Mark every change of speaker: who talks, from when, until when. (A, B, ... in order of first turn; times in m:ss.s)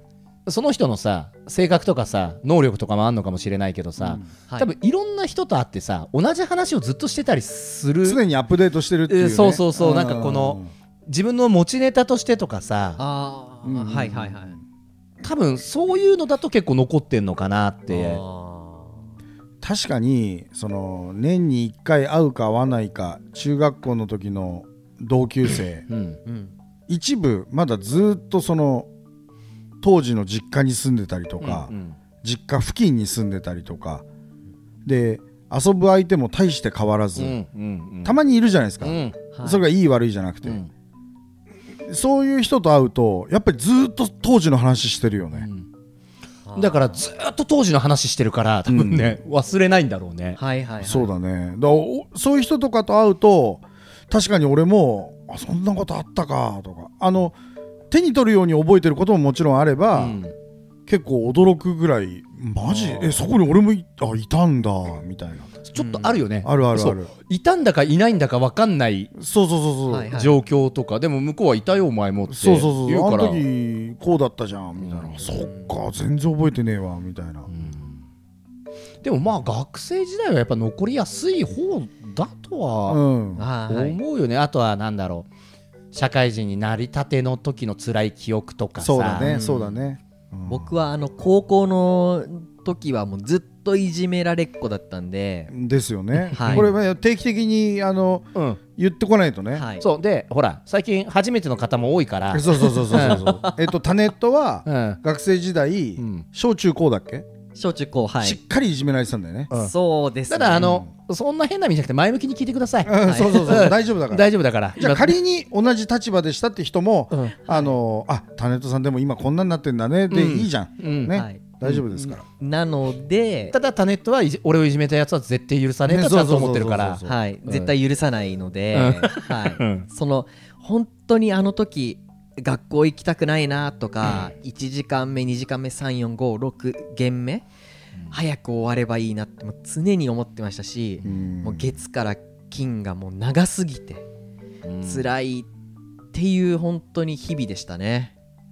0:00.5-0:08.2 A
0:04.0-0:04.3 B
0:08.0-0:10.7 B
0:09.1-0:13.0 A
0:13.0-0:14.6 C
0:13.6-0:14.6 B
0:15.2-0:18.2 A
0:17.9-0:19.0 C
0:19.6-0:25.9 B
0:25.9-0:26.2 A
0:26.2-0:26.5 C
0:26.9-0:28.9 B
0:29.8-0:34.0 B
0:31.4-0:32.0 A
0:34.8-0:37.4 B
0:37.2-0:38.2 A
0:38.0-0:40.6 B
0:38.8-0:39.2 A
0:39.3-0:39.6 C
0:40.4-0:40.7 A
0:41.9-0:45.5 B
0:45.4-0:45.6 A
0:46.5-0:47.0 C
0:46.6-0:50.4 A
0:48.7-0:49.2 B
0:50.4-0:51.1 C
0:50.8-0:57.4 B
0:57.9-1:00.2 B
0:59.9-1:00.3 A
1:00.9-1:05.6 B
1:02.7-1:03.2 C
1:05.7-1:09.1 A
1:05.8-1:06.2 C
1:06.4-1:07.1 B
1:09.2-1:10.1 B
1:09.9-1:10.4 C
1:10.1-1:13.4 A
1:12.3-1:17.5 B
1:14.8-1:15.2 A
1:17.5-1:18.0 A
1:19.0-1:23.0 A
1:22.9-1:23.4 B
1:23.4-1:24.0 C
1:23.7-1:25.3 A
1:25.9-1:29.4 A
1:28.8-1:30.7 B
1:29.2-1:29.8 C
1:30.5-1:35.5 C
1:35.5-1:39.7 B
1:36.2-1:36.7 A
1:36.3-1:36.7 C
1:38.4-1:38.6 A
1:39.6-1:39.8 C
1:39.8-1:43.3 A
1:42.3-1:47.2 B
1:42.5-1:43.7 C
1:44.7-1:45.0 A
1:46.0-1:46.2 A
1:47.6-1:48.4 C
1:48.2-1:49.7 B
1:49.5-1:50.8 C
1:50.3-1:55.2 A
1:50.6-1:50.9 B
1:52.8-2:02.2 B
1:53.0-1:53.7 C
1:57.4-1:57.8 C
2:00.1-2:02.1 A
2:01.1-2:01.4 C
2:02.4-2:03.5 C
2:03.5-2:07.7 A
2:05.9-2:07.2 B
2:07.1-2:17.4 C
2:08.7-2:09.9 A
2:18.1-2:24.1 C
2:21.0-2:21.8 B
2:24.6-2:25.1 A
2:24.8-2:25.5 C
2:26.1-2:28.1 C